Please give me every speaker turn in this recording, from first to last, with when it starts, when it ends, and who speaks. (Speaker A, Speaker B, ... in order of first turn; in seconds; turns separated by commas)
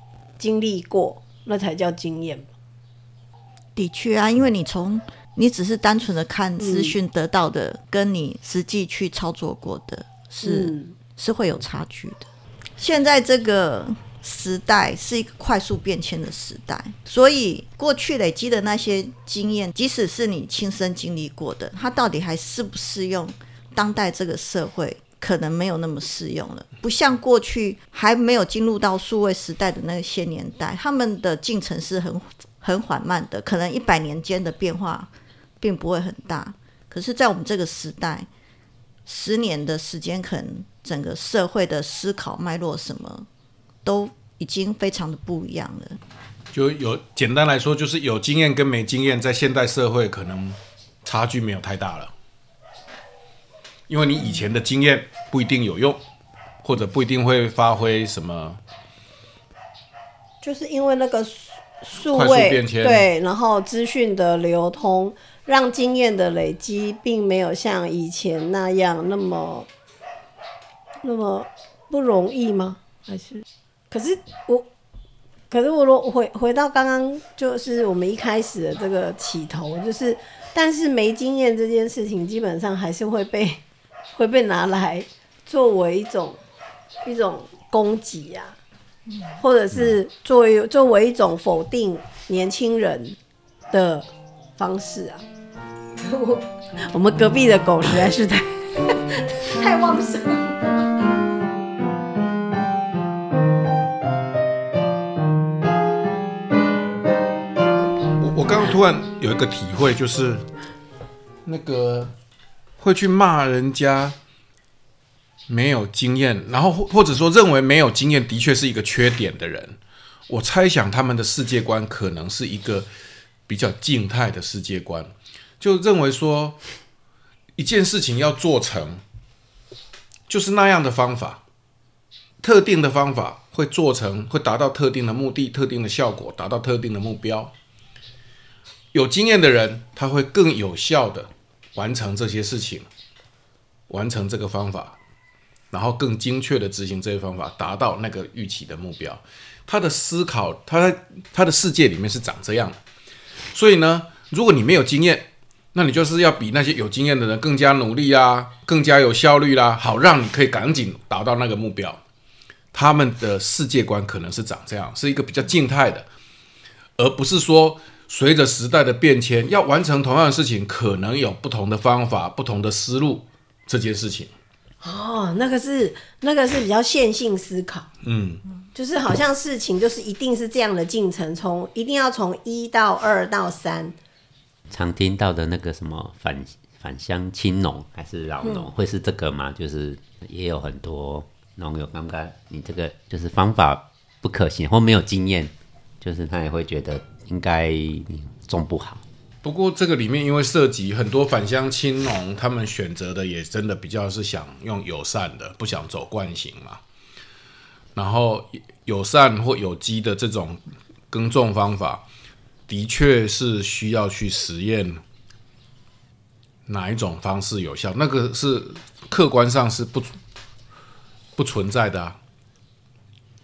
Speaker A: 0.4-2.5, Speaker B: 3.8-12.3, Speaker A: 6.6-7.0, Speaker A: 10.4-10.9, Speaker B: 12.8-38.3, Speaker B: 39.1-43.3, Speaker B: 43.8-46.0, Speaker C: 46.5-52.1, Speaker C: 53.9-56.0, Speaker C: 56.6-58.6, Speaker A: 60.4-69.7, Speaker C: 62.0-63.1, Speaker A: 71.0-74.7, Speaker A: 75.5-83.6, Speaker A: 84.1-86.4, Speaker A: 87.0-88.6, Speaker A: 89.4-93.2, Speaker A: 93.7-95.2, Speaker A: 96.0-100.8, Speaker C: 108.2-110.4, Speaker C: 111.5-112.1, Speaker C: 112.8-114.2, Speaker C: 115.5-119.8, Speaker C: 120.3-122.9, Speaker C: 123.5-126.6, Speaker C: 127.6-129.0, Speaker C: 130.3-131.4, Speaker C: 132.4-137.5, Speaker C: 138.9-142.9, Speaker C: 143.9-145.0, Speaker C: 145.7-152.8, Speaker C: 153.5-162.0, Speaker C: 162.7-166.1, Speaker C: 167.0-174.3, Speaker A: 174.8-177.9, Speaker C: 178.0-178.4, Speaker A: 178.8-184.0, Speaker D: 184.7-199.0, Speaker A: 188.4-188.7, Speaker C: 199.4-206.8, Speaker C: 207.9-212.1, Speaker C: 212.7-215.0, Speaker C: 216.7-220.1, Speaker C: 221.4-222.2